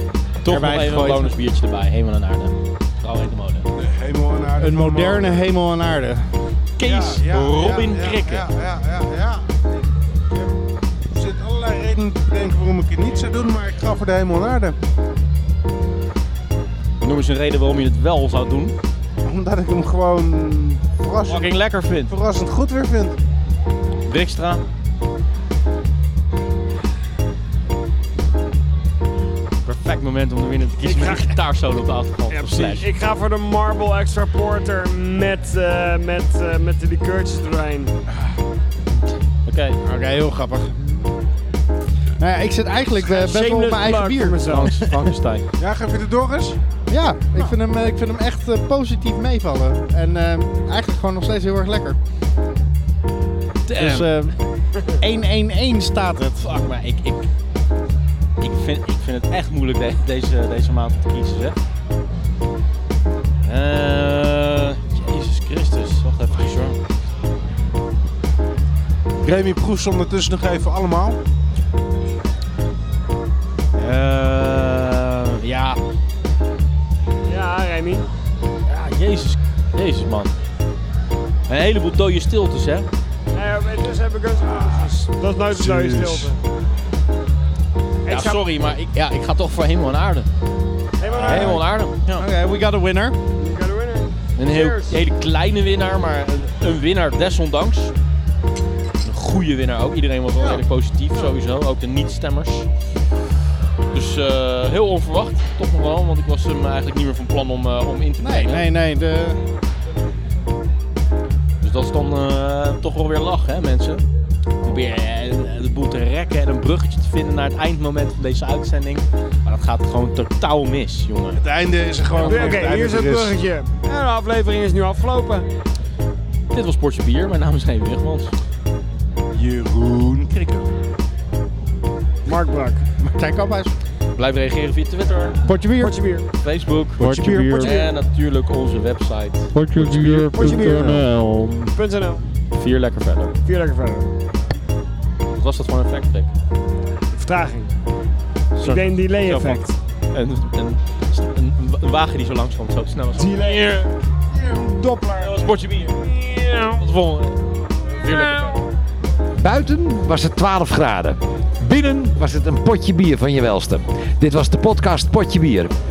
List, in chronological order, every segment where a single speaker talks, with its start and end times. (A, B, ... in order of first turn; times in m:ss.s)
0:00.4-0:03.7 A
0:00.5-0:01.3 B
0:03.8-0:05.4 C
0:04.6-0:06.3 B
0:06.8-0:08.4 A
0:06.8-0:10.5 C
0:11.1-0:14.8 C
0:17.0-0:18.7 A
0:19.2-0:21.6 C
0:21.3-0:22.1 A
0:22.1-0:23.2 C
0:24.0-0:24.6 A
0:29.6-0:32.9 A
0:30.8-0:31.3 D
0:32.3-0:37.9 D
0:39.4-0:39.8 A
0:39.8-0:41.1 B
0:42.2-0:45.0 B
0:43.0-0:44.7 D
0:44.5-0:45.4 A
0:45.6-0:46.6 C
0:46.9-0:52.0 B
0:53.6-0:54.1 A
0:53.7-0:54.3 B
0:54.9-0:56.4 B
0:56.4-0:57.2 A
0:58.4-1:01.6 A
1:03.4-1:06.8 A
1:09.2-1:11.2 C
1:13.8-1:15.8 A
1:17.3-1:18.1 D
1:18.7-1:20.3 A
1:21.5-1:22.9 A
1:23.3-1:26.4 D
1:24.5-1:24.8 C
1:25.5-1:26.3 C
1:28.1-1:28.4 D
1:28.1-1:30.3 A
1:31.0-1:31.6 D
1:31.0-1:31.6 C
1:31.2-1:32.2 A
1:32.2-1:33.2 B
1:33.4-1:34.9 D
1:34.4-1:37.9 A
1:39.0-1:42.7 A
1:43.9-1:48.6 A
1:48.2-1:49.4 B
1:51.6-1:54.0 A
1:54.6-2:01.4 A
2:01.4-2:03.4 C
2:02.2-2:02.7 A
2:02.2-2:05.5 D
2:06.5-2:08.3 A
2:09.3-2:10.7 C
2:12.2-2:12.8 D
2:13.0-2:13.7 B
2:14.2-2:15.4 A
2:15.4-2:16.0 B
2:15.8-2:16.2 D
2:16.4-2:20.3 A
2:17.0-2:17.8 B
2:17.0-2:17.8 C
2:19.5-2:21.7 B
2:19.7-2:21.1 C
2:20.3-2:21.0 D
2:21.7-2:22.2 D
2:22.6-2:23.4 A
2:23.4-2:24.1 D
2:25.3-2:26.3 A
2:27.1-2:27.7 D
2:28.6-2:33.9 A
2:28.6-2:29.7 D
2:33.2-2:33.7 D
2:34.4-2:36.8 D
2:35.2-2:36.1 A
2:36.7-2:38.6 A
2:38.0-2:38.6 D
2:39.3-2:45.7 E